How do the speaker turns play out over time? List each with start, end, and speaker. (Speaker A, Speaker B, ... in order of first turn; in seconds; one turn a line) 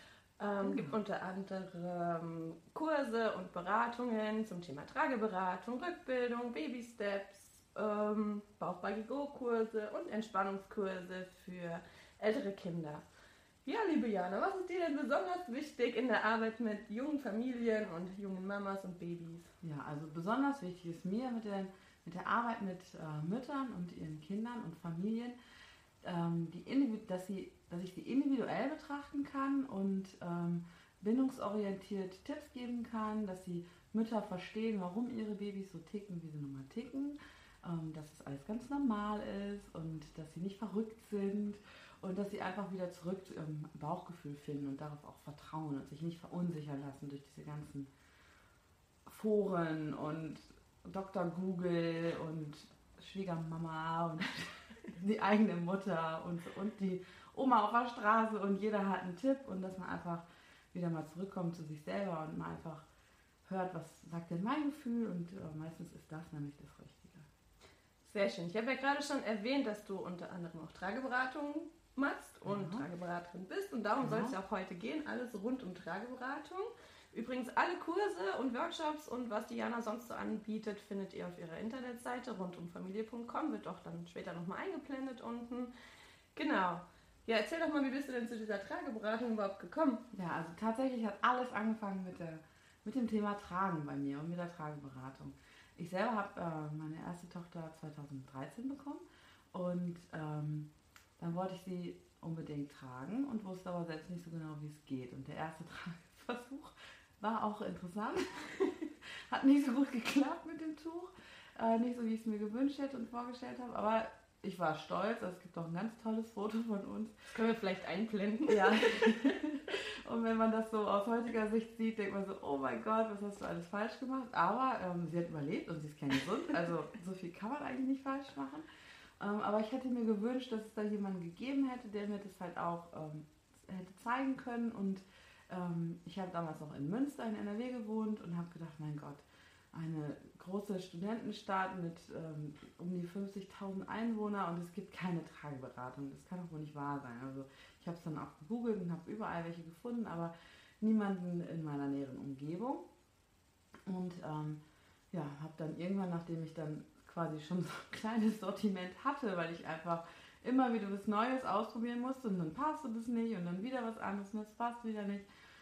Speaker A: 0.4-13.0
Speaker B: 0.6-0.9
Speaker A: 13.6-19.5
Speaker B: 19.6-25.4
Speaker B: 26.0-47.9
Speaker B: 49.0-62.9
Speaker B: 63.4-67.3
Speaker A: 68.0-85.7
Speaker B: 72.4-72.8
Speaker B: 74.0-74.3
Speaker A: 86.3-90.0
Speaker B: 90.1-117.3
Speaker A: 117.3-119.5
Speaker B: 118.5-128.7
Speaker B: 129.2-152.8
Speaker B: 153.8-165.3